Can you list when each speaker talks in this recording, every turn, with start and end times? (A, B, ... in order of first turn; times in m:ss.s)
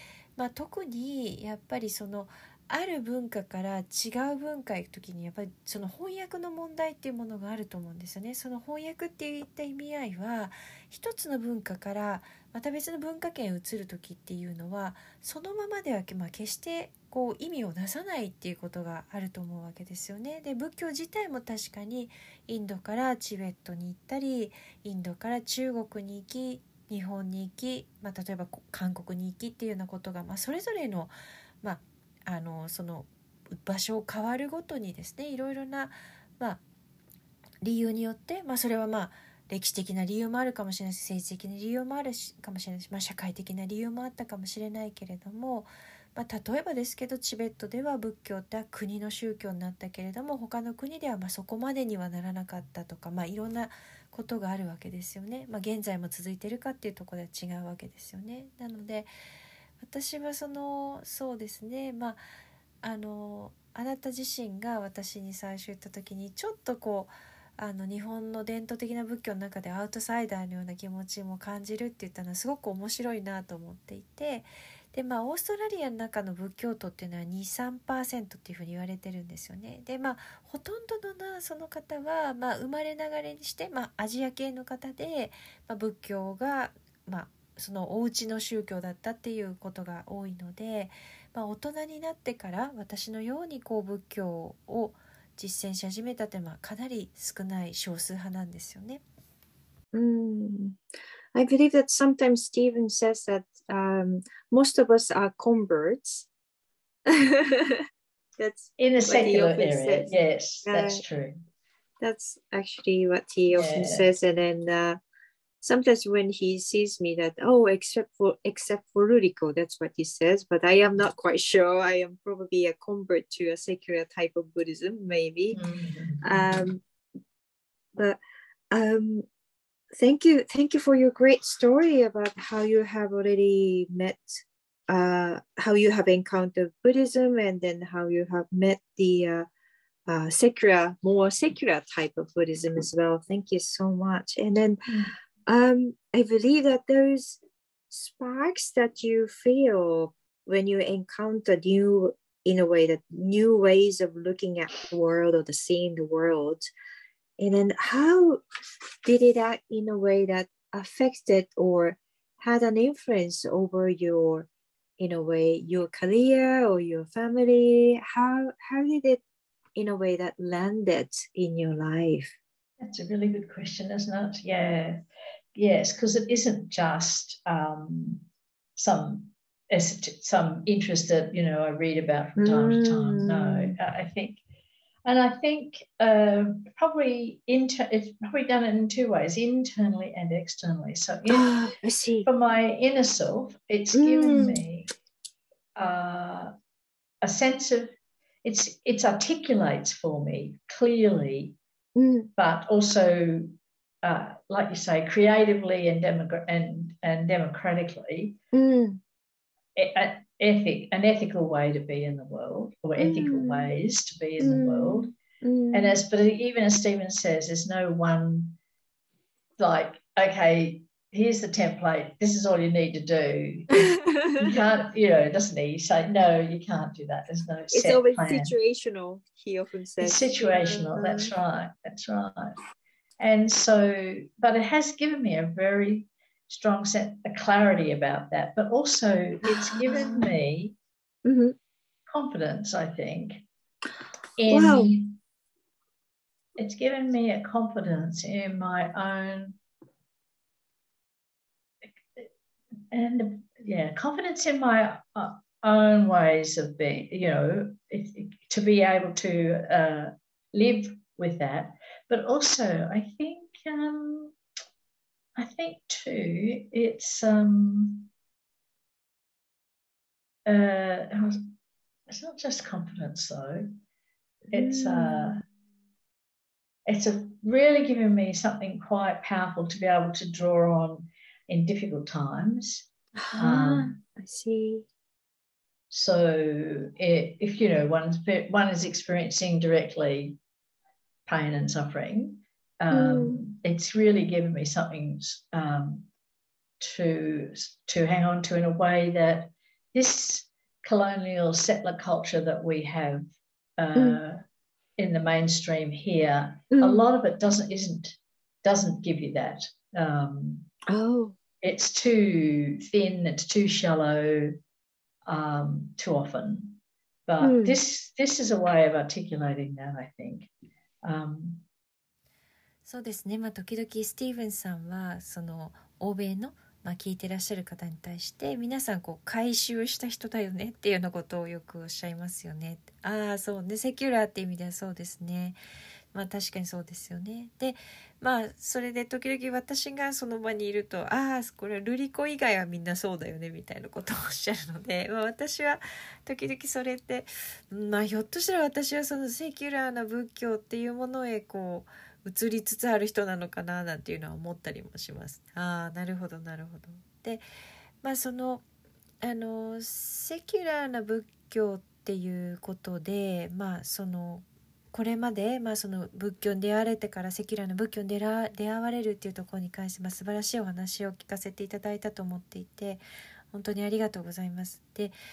0:00.4-0:36.6 A
0:37.6-0:59.1 A
0:59.8-1:02.2 A
1:02.8-1:39.0 A
1:39.9-1:40.8 B
1:41.3-1:46.3 B
1:47.1-1:50.1 B
1:48.8-1:51.4 C
1:50.6-1:51.0 B
1:52.0-1:55.0 B
1:53.5-1:54.1 C
1:55.6-2:05.6 B
2:05.5-2:06.7 C
2:06.2-2:06.8 B
2:08.7-2:09.3 B
2:09.9-2:19.5 B
2:20.1-2:27.4 B
2:27.9-2:36.7 B
2:37.4-2:38.4 B
2:39.0-2:49.2 B
2:49.8-2:52.4 B
2:52.8-2:55.0 C
2:55.6-3:04.4 C
3:02.4-3:03.8 B
3:05.0-3:11.7 C
3:11.3-3:12.3 B
3:12.2-3:14.9 C
3:13.9-3:14.6 B
3:15.8-3:16.5 C
3:17.2-3:21.6 C
3:22.0-3:22.3 B
3:22.4-3:28.4 C
3:28.5-3:29.0 B
3:29.8-3:35.1 C
3:33.0-3:33.7 B
3:34.4-3:36.0 B
3:35.7-3:38.6 C
3:39.6-3:48.5 C
3:43.8-3:44.6 B
3:47.7-3:51.3 B
3:50.0-3:52.6 C
3:53.2-4:00.8 C
3:59.5-4:00.3 B
4:01.2-4:01.6 B
4:02.1-4:03.4 C
4:04.4-4:05.2 C
4:04.5-4:04.9 B
4:06.6-4:09.6 C
4:12.9-4:24.4 C
4:25.4-4:28.1 C
4:30.5-4:31.5 C
4:32.1-4:33.7 C
4:34.5-4:35.4 C
4:34.5-4:35.4 B
4:36.9-4:44.0 C
4:43.2-4:44.9 B
4:45.9-4:50.4 C
4:51.3-4:56.1 C
4:52.9-4:53.4 B
4:56.8-5:03.3 C
5:03.8-5:04.4 C
5:04.0-5:04.2 B
5:05.0-5:10.7 C
5:06.7-5:07.1 B
5:10.9-5:11.4 B
5:11.6-5:14.6 C
5:15.2-5:20.5 C
5:17.4-5:17.8 B
5:21.0-5:21.7 C
5:22.8-5:35.6 A
5:36.1-5:57.4 A
5:58.0-5:58.6 A
5:59.2-6:15.2 A